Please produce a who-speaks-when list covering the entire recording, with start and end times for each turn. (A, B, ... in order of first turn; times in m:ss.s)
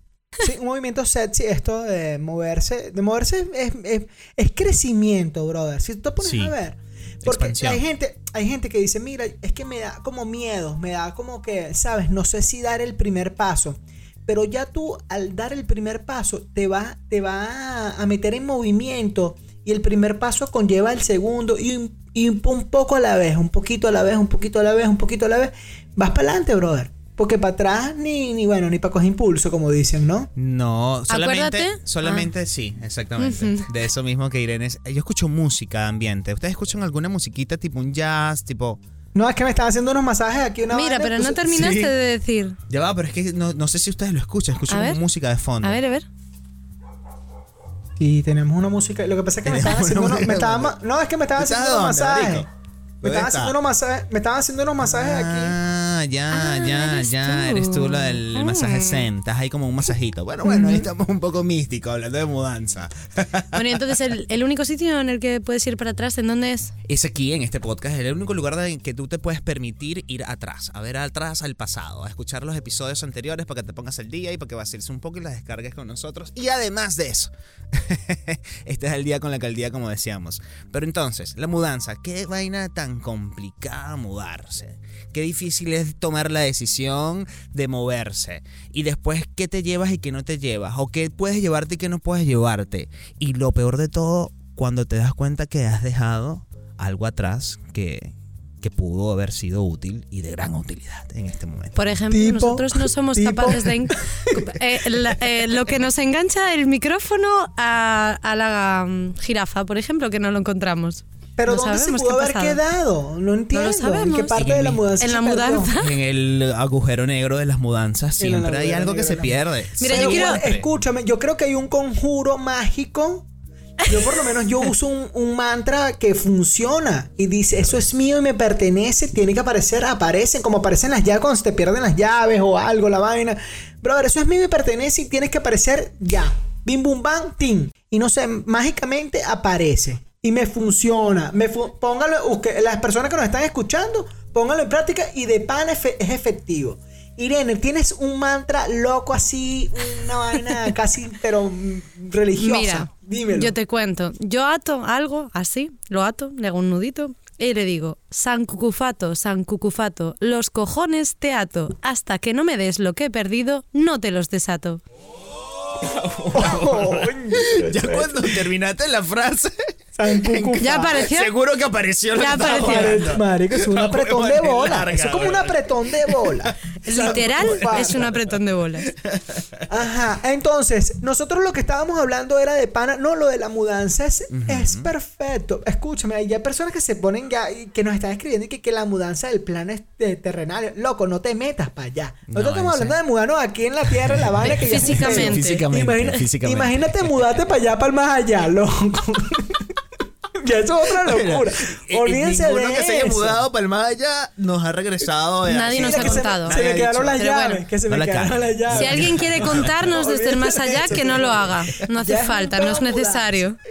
0:00.4-0:30.3 A
0:06.2-0:06.5 B
0:07.2-0:07.8 B
0:30.4-0:38.8 B
0:31.1-0:32.3 C
0:33.2-0:33.7 C
0:39.1-0:41.8 A
0:40.7-0:42.6 C
0:41.5-0:41.9 B
0:42.7-0:45.8 B
0:44.7-0:45.0 C
0:45.6-0:46.1 C
0:48.0-0:52.5 A
0:49.4-0:50.7 B
0:51.4-0:52.5 B
0:53.0-0:53.6 B
0:53.0-0:55.6 A
0:54.8-1:03.9 B
0:56.3-0:59.1 C
1:00.4-1:00.9 A
1:03.5-1:06.7 C
1:06.9-1:42.0 B
1:41.8-1:52.6 C
1:42.1-1:44.5 A
1:51.4-1:55.7 A
1:53.5-1:56.0 C
1:54.4-1:54.8 B
1:55.8-2:00.7 B
1:58.2-2:03.3 A
1:59.8-2:00.4 C
2:03.9-2:33.6 A
2:32.4-2:44.8 C
2:45.8-2:49.5 B
2:46.3-2:48.4 A
2:50.0-2:51.1 A
2:50.1-2:58.2 B
2:50.6-2:51.3 C
2:52.2-2:53.0 C
2:52.4-2:58.1 A
2:56.8-2:58.9 C
2:58.9-2:59.7 B
2:59.7-3:19.7 A
3:04.3-3:04.9 B
3:12.3-3:13.0 B
3:14.0-3:17.5 B
3:14.5-3:15.6 C
3:20.4-3:23.4 A
3:21.0-3:27.2 B
3:25.4-3:26.6 C
3:25.7-3:33.4 A
3:27.2-3:27.6 C
3:27.9-3:30.0 B
3:28.7-3:33.6 C
3:30.9-3:31.2 B